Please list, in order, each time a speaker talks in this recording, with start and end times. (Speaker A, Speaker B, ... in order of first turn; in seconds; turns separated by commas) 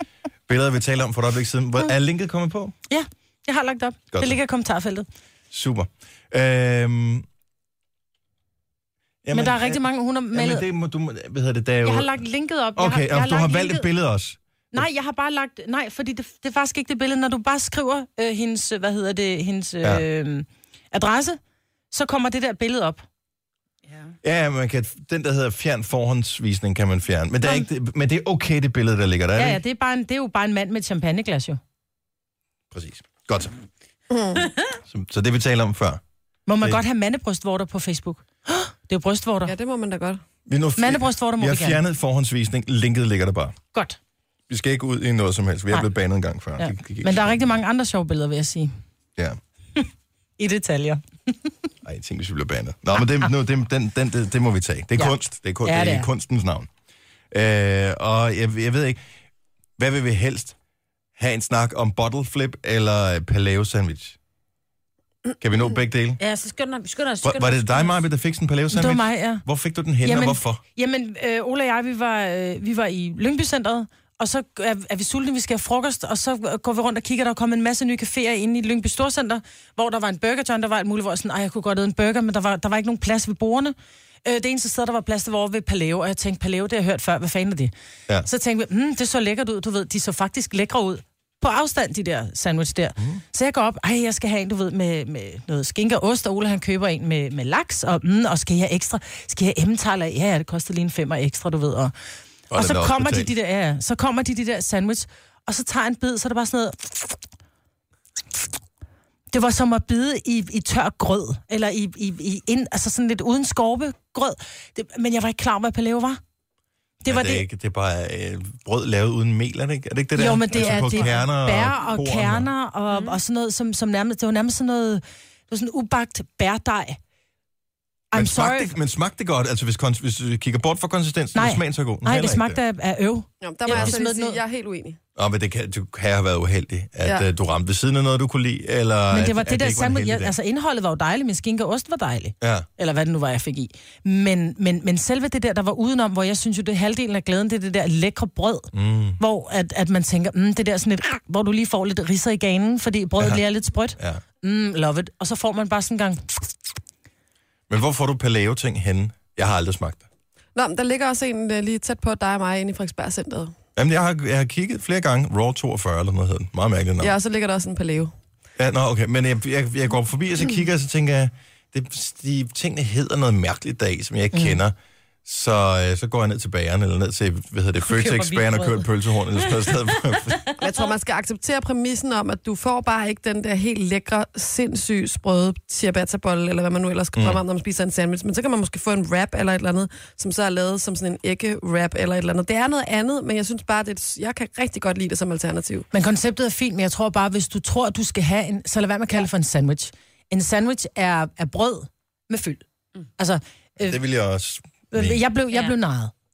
Speaker A: 0.5-2.8, Speaker B: 2.9-5.1, Speaker A: 4.1-4.4, Speaker A: 5.5-7.2, Speaker A: 9.2-12.2, Speaker B: 9.3-10.7, Speaker B: 11.8-13.9, Speaker A: 12.8-14.9, Speaker B: 14.7-21.4, Speaker B: 21.9-23.0, Speaker A: 24.2-29.6, Speaker B: 29.4-31.6, Speaker A: 32.7-33.5, Speaker C: 34.1-34.5, Speaker A: 34.9-36.0, Speaker B: 36.5-39.5, Speaker C: 39.4-40.2, Speaker A: 40.5-43.6, Speaker B: 40.8-41.8, Speaker A: 44.5-47.3, Speaker B: 46.6-48.7, Speaker B: 50.4-51.5, Speaker A: 51.8-56.7, Speaker B: 55.0-56.1, Speaker A: 57.3-59.0, Speaker A: 59.8-60.5, Speaker A: 61.2-64.2, Speaker A: 65.4-66.2, Speaker D: 66.2-68.0, Speaker A: 67.2-70.6, Speaker B: 68.7-69.4, Speaker B: 70.0-87.7, Speaker B: 88.2-101.9, Speaker A: 102.5-103.3, Speaker B: 102.5-107.2, Speaker B: 109.3-116.2, Speaker B: 117.0-117.4, Speaker A: 117.1-122.5, Speaker B: 120.1-127.0, Speaker D: 122.9-123.2, Speaker B: 128.1-128.7, Speaker A: 128.1-132.6, Speaker B: 131.3-134.4, Speaker C: 133.4-135.0, Speaker A: 135.2-140.3, Speaker B: 139.1-156.2, Speaker A: 142.4-142.7, Speaker A: 148.7-149.2, Speaker A: 154.0-154.2, Speaker A: 157.7-160.0, Speaker C: 160.5-163.5, Speaker A: 163.8-167.1, Speaker C: 167.0-168.1, Speaker A: 168.6-180.4, Speaker D: 177.9-179.6, Speaker C: 180.6-195.9, Speaker A: 187.2-187.4, Speaker B: 195.9-202.6, Speaker B: 203.2-204.0, Speaker A: 203.8-205.2, Speaker B: 204.9-206.1, Speaker D: 205.5-205.8